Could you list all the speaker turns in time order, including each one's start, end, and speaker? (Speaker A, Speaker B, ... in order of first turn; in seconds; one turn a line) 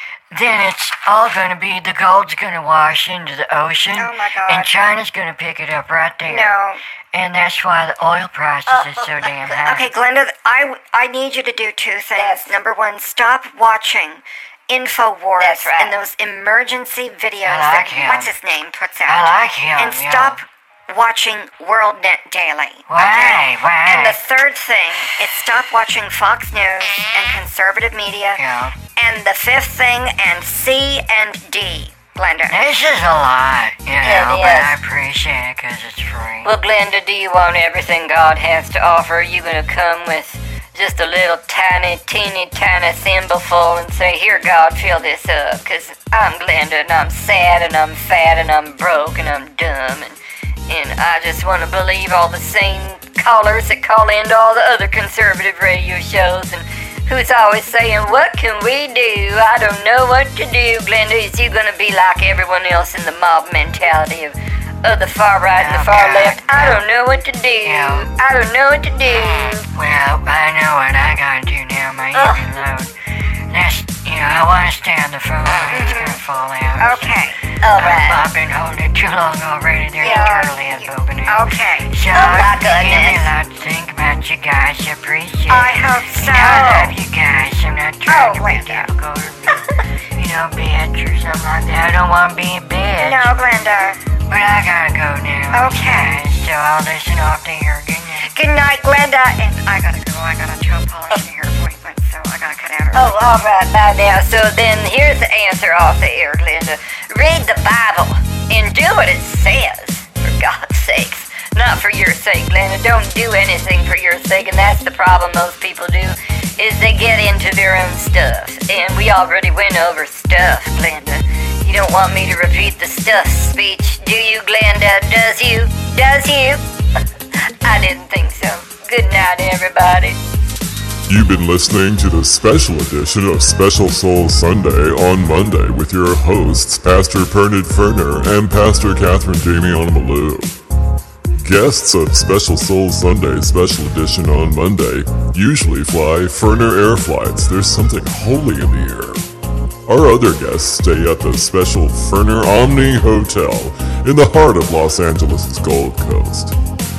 Speaker A: 0.3-6.6
Speaker B: 4.0-4.7
Speaker B: 6.3-6.8
Speaker A: 7.1-9.9
Speaker C: 8.7-9.8
Speaker B: 9.7-28.4
Speaker C: 12.2-12.6
Speaker C: 15.4-15.9
Speaker A: 17.4-18.3
Speaker A: 19.1-20.4
Speaker A: 22.9-24.2
Speaker A: 28.4-28.8
Speaker B: 28.9-32.6
Speaker A: 32.5-36.5
Speaker C: 34.0-34.8
Speaker C: 36.4-69.7
Speaker A: 65.5-66.9
Speaker A: 67.6-68.1
Speaker A: 69.7-72.9
Speaker C: 72.1-72.5
Speaker A: 73.5-77.2
Speaker B: 75.7-76.2
Speaker B: 76.8-77.4
Speaker C: 77.6-78.3
Speaker A: 77.8-93.3
Speaker B: 80.0-81.9
Speaker C: 80.0-80.5
Speaker C: 82.1-83.3
Speaker B: 85.5-86.9
Speaker B: 88.1-88.9
Speaker B: 93.0-94.0
Speaker A: 94.3-98.3
Speaker B: 95.5-96.2
Speaker B: 98.2-103.1
Speaker C: 102.9-126.7
Speaker C: 127.3-130.2
Speaker D: 131.1-140.5
Speaker D: 141.4-149.2
Speaker D: 149.9-156.6